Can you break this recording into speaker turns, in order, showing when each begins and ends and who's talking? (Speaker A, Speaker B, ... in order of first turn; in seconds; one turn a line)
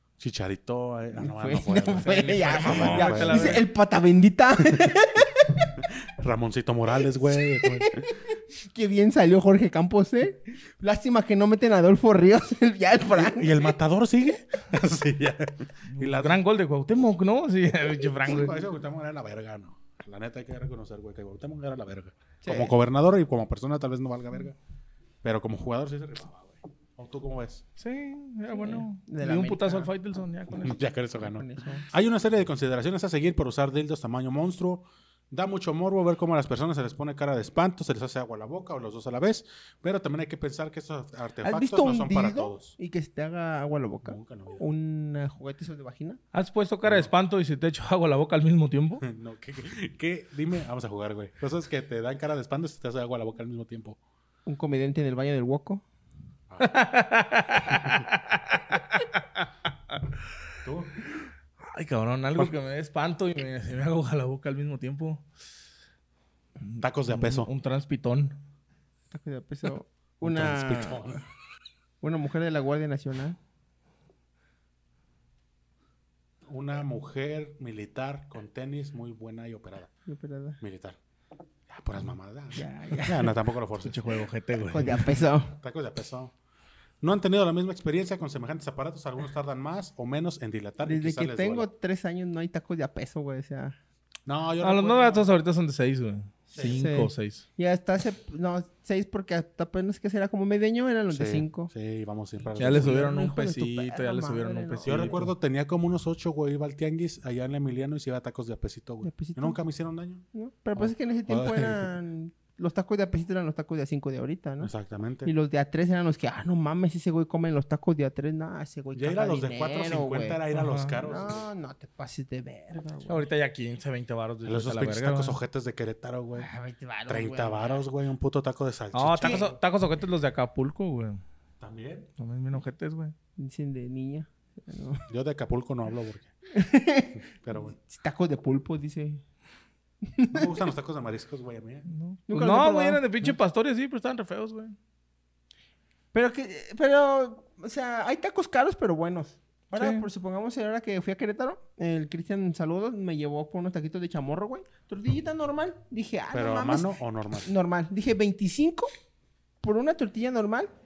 Speaker A: 0.2-3.6
Speaker B: 1.1-5.7
Speaker C: 2.1-3.7
Speaker A: 5.8-8.1
Speaker B: 7.4-8.1
Speaker B: 8.6-13.7
Speaker A: 13.1-16.4
Speaker C: 15.9-18.6
Speaker A: 18.2-24.6
Speaker B: 22.4-22.8
Speaker A: 25.2-27.6
Speaker C: 27.8-30.8
Speaker B: 28.5-29.9
Speaker A: 30.5-42.7
Speaker B: 31.2-31.9
Speaker B: 41.4-46.2
Speaker A: 44.0-44.6
Speaker C: 46.3-49.0
Speaker A: 46.8-47.1
Speaker A: 49.0-54.0
Speaker B: 54.5-55.8
Speaker C: 56.6-59.4
Speaker A: 60.6-60.9
Speaker C: 61.6-65.2
Speaker C: 66.6-68.4
Speaker A: 66.8-67.5
Speaker B: 69.1-71.2
Speaker A: 70.2-71.2
Speaker B: 72.0-73.4
Speaker A: 76.5-79.9
Speaker B: 80.0-80.6
Speaker A: 80.6-81.0
Speaker A: 81.7-85.0
Speaker B: 82.5-83.3
Speaker C: 83.8-85.1
Speaker B: 84.7-85.5
Speaker A: 85.5-86.3
Speaker A: 87.0-91.7
Speaker B: 90.8-93.8
Speaker A: 94.2-95.3
Speaker C: 94.6-97.4
Speaker B: 96.5-101.7
Speaker A: 101.1-103.0
Speaker C: 102.5-105.3
Speaker B: 102.6-105.3
Speaker A: 104.8-110.2
Speaker B: 109.0-109.6
Speaker B: 110.3-114.7
Speaker A: 110.8-111.9
Speaker A: 114.6-115.3
Speaker B: 115.2-120.4
Speaker A: 118.9-121.5
Speaker C: 120.5-121.0
Speaker B: 121.0-123.2
Speaker C: 123.1-125.4
Speaker A: 124.4-126.5
Speaker B: 126.4-127.8
Speaker A: 127.1-129.5
Speaker C: 128.9-131.2
Speaker B: 129.2-129.5
Speaker A: 131.6-132.1
Speaker C: 132.2-133.1
Speaker B: 133.4-135.1
Speaker A: 135.1-136.3
Speaker B: 136.5-139.2
Speaker A: 137.2-137.8
Speaker B: 140.1-140.5
Speaker A: 140.3-141.9
Speaker C: 141.9-144.8
Speaker B: 142.3-143.3
Speaker B: 146.1-156.9
Speaker C: 149.7-150.1
Speaker A: 156.3-157.5
Speaker B: 157.4-158.9
Speaker B: 159.6-160.7